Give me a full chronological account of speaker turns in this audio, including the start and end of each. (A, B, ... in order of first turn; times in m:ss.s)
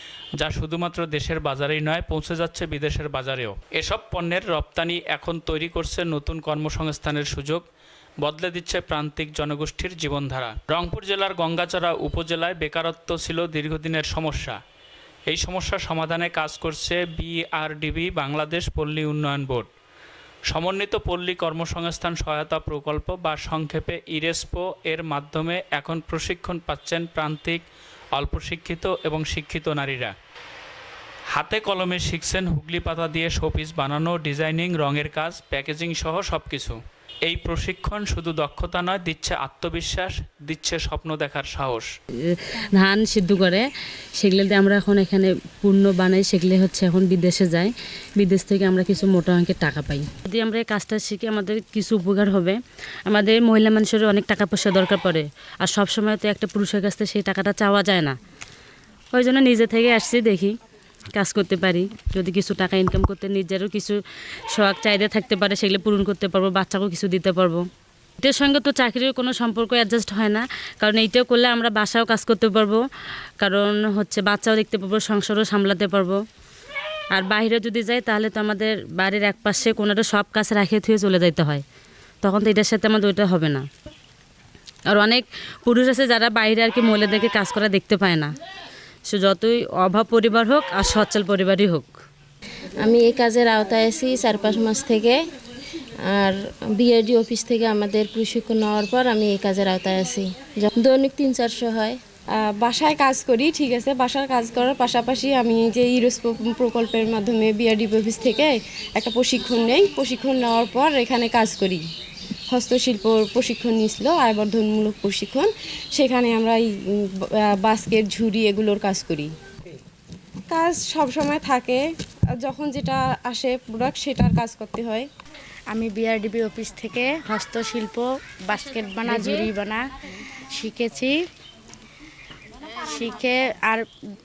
0:00.4-0:07.6 A
0:08.2-0:14.6 A
0:15.3-0:19.7 A
0:20.5-0:27.6 A
0:28.2-0:30.1 A
0:31.3-0:41.9 A
0:42.2-0:43.6 B
0:44.2-0:58.2 B
0:59.1-1:00.6 B
1:01.2-1:07.7 B
1:08.2-1:12.8 B
1:13.4-1:16.2 B
1:17.1-1:21.6 B
1:22.2-1:23.7 B
1:24.9-1:28.3 B
1:29.1-1:32.0 B
1:32.8-1:35.2 C
1:36.1-1:40.3 C
1:40.9-1:42.0 C
1:42.4-1:51.9 D
1:52.5-1:59.3 D
2:00.5-2:01.8 D
2:02.4-2:05.1 D
2:05.7-2:09.8 E
2:09.0-2:09.4 D
2:10.6-2:11.2 E
2:12.8-2:13.8 E